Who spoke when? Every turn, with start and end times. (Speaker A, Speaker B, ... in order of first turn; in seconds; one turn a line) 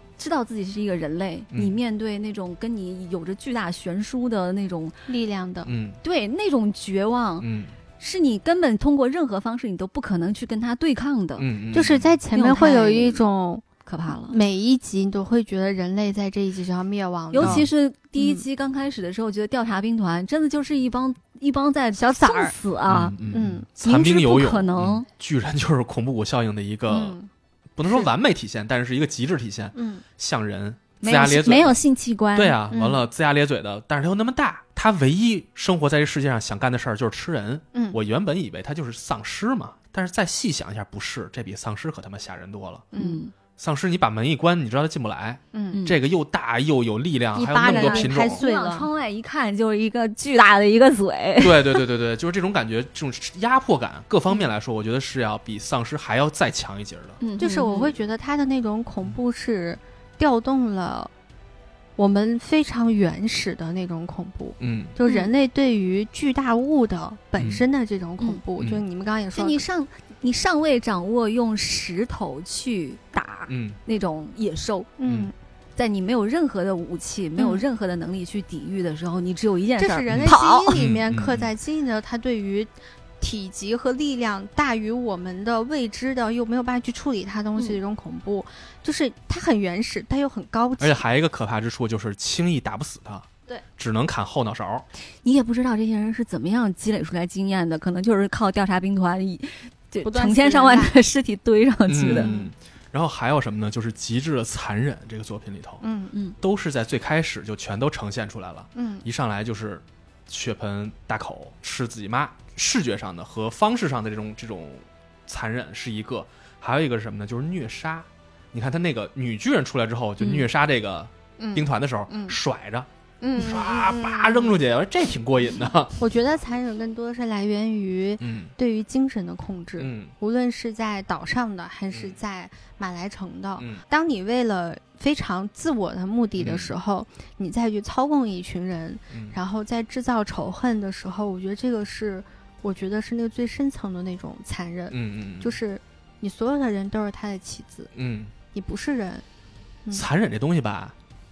Speaker A: 0.2-5.0
Speaker B: 5.1-5.7
Speaker C: 5.7-6.0
Speaker A: 6.0-7.5
Speaker C: 7.4-7.7
Speaker A: 8.0-11.5
Speaker C: 11.4-12.1
Speaker B: 11.7-13.6
Speaker A: 12.3-13.2
Speaker A: 13.8-14.4
Speaker B: 14.3-17.7
Speaker A: 17.3-23.2
Speaker C: 17.4-17.7
Speaker B: 18.2-18.4
Speaker B: 22.0-22.5
Speaker C: 22.9-27.2
Speaker B: 23.3-23.7
Speaker A: 23.8-25.1
Speaker B: 26.9-27.3
Speaker C: 27.8-31.8
Speaker B: 29.8-30.0
Speaker A: 31.0-32.6
Speaker C: 32.4-42.9
Speaker B: 32.7-33.0
Speaker B: 42.9-43.2
Speaker A: 43.0-43.3
Speaker C: 43.6-48.4
Speaker B: 45.5-45.8
Speaker B: 47.4-48.9
Speaker A: 47.6-51.8
Speaker C: 51.4-57.2
Speaker A: 57.2-58.0
Speaker B: 57.4-61.1
Speaker B: 62.0-69.6
Speaker C: 64.6-65.0
Speaker A: 65.1-65.3
Speaker C: 67.4-67.7
Speaker A: 69.3-74.9
Speaker C: 73.5-73.8
Speaker B: 75.0-75.3
Speaker C: 75.1-75.3
Speaker A: 75.8-80.8
Speaker B: 77.4-77.6
Speaker B: 79.8-91.0
Speaker C: 80.1-81.5
Speaker C: 90.8-94.9
Speaker A: 95.2-102.3
Speaker B: 100.0-100.9
Speaker C: 101.9-105.8
Speaker B: 102.1-102.5
Speaker B: 105.8-106.1
Speaker C: 106.4-126.0
Speaker B: 108.8-109.0
Speaker B: 121.4-122.4
Speaker B: 123.2-124.6
Speaker B: 126.0-147.9
Speaker C: 128.2-128.5
Speaker C: 129.8-130.1
Speaker C: 131.9-132.2
Speaker C: 136.4-136.7
Speaker C: 139.1-139.4
Speaker C: 144.9-145.6
Speaker C: 147.9-148.3
Speaker B: 148.5-149.2
Speaker C: 149.9-150.9